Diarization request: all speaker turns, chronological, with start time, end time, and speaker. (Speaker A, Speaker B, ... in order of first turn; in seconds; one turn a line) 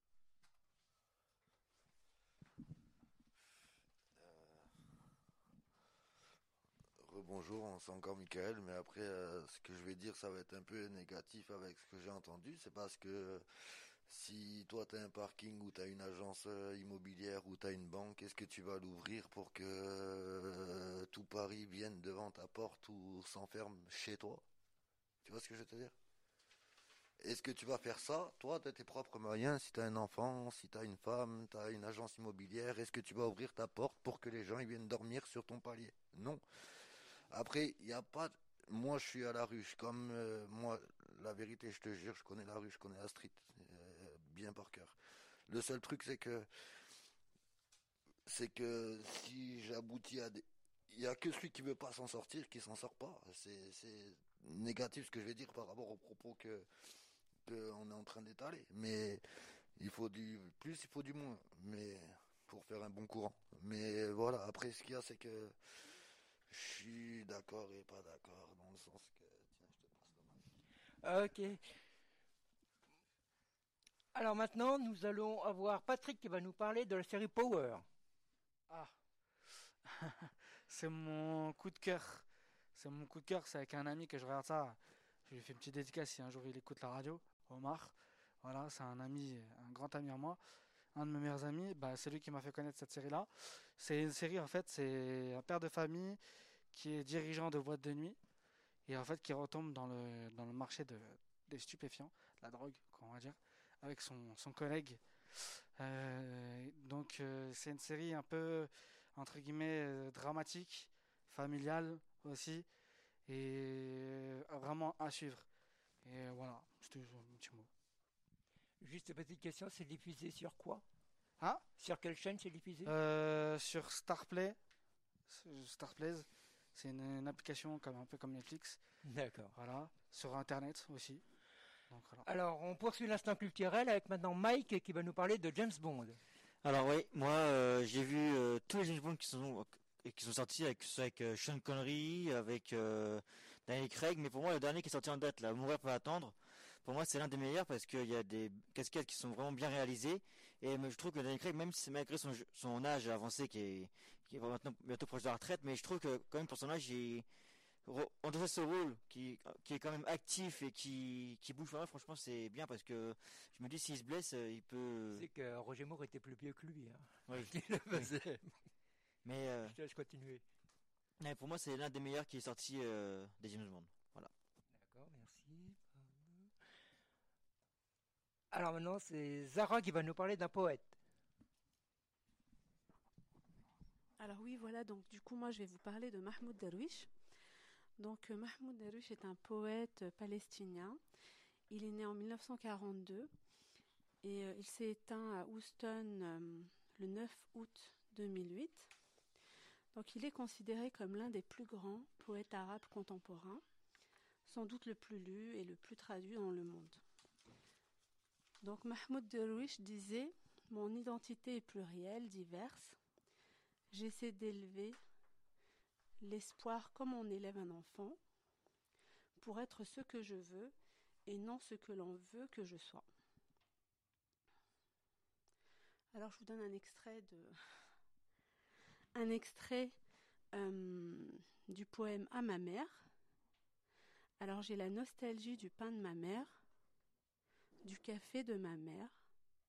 Speaker A: 4.2-4.7
Speaker A: 7.0-24.4
Speaker A: 25.2-25.9
Speaker A: 27.2-36.4
Speaker A: 37.3-45.0
Speaker A: 45.5-46.5
Speaker A: 48.3-56.7
Speaker A: 57.4-65.9
Speaker A: 66.5-70.4
Speaker B: 71.0-71.7
Speaker B: 74.1-77.8
Speaker C: 78.7-78.9
Speaker C: 79.8-90.4
Speaker C: 90.9-96.2
Speaker C: 96.7-98.2
Speaker C: 98.9-112.7
Speaker C: 113.3-115.5
Speaker C: 116.0-117.7
Speaker B: 118.8-120.8
Speaker B: 121.8-122.9
Speaker C: 122.8-124.6
Speaker C: 125.3-128.8
Speaker B: 129.0-129.5
Speaker C: 129.5-131.2
Speaker C: 131.9-132.2
Speaker B: 132.2-136.2
Speaker D: 136.6-157.2
Speaker D: 157.8-165.2
Speaker B: 165.1-168.5
Speaker D: 167.3-168.1
Speaker D: 169.2-169.7
Speaker B: 169.6-170.4
Speaker D: 171.2-174.3
Speaker B: 174.7-176.5
Speaker B: 178.5-181.0
Speaker E: 184.2-187.1
Speaker E: 188.0-191.0
Speaker E: 191.7-193.3
Speaker E: 194.2-198.9
Speaker E: 199.9-203.6
Speaker E: 204.4-207.0
Speaker E: 208.6-213.0
Speaker E: 213.9-215.0
Speaker E: 216.2-218.2
Speaker E: 219.4-220.7
Speaker E: 221.2-223.1
Speaker E: 226.1-227.6
Speaker E: 229.1-230.0
Speaker E: 230.5-233.1
Speaker E: 234.4-236.6
Speaker E: 237.8-239.2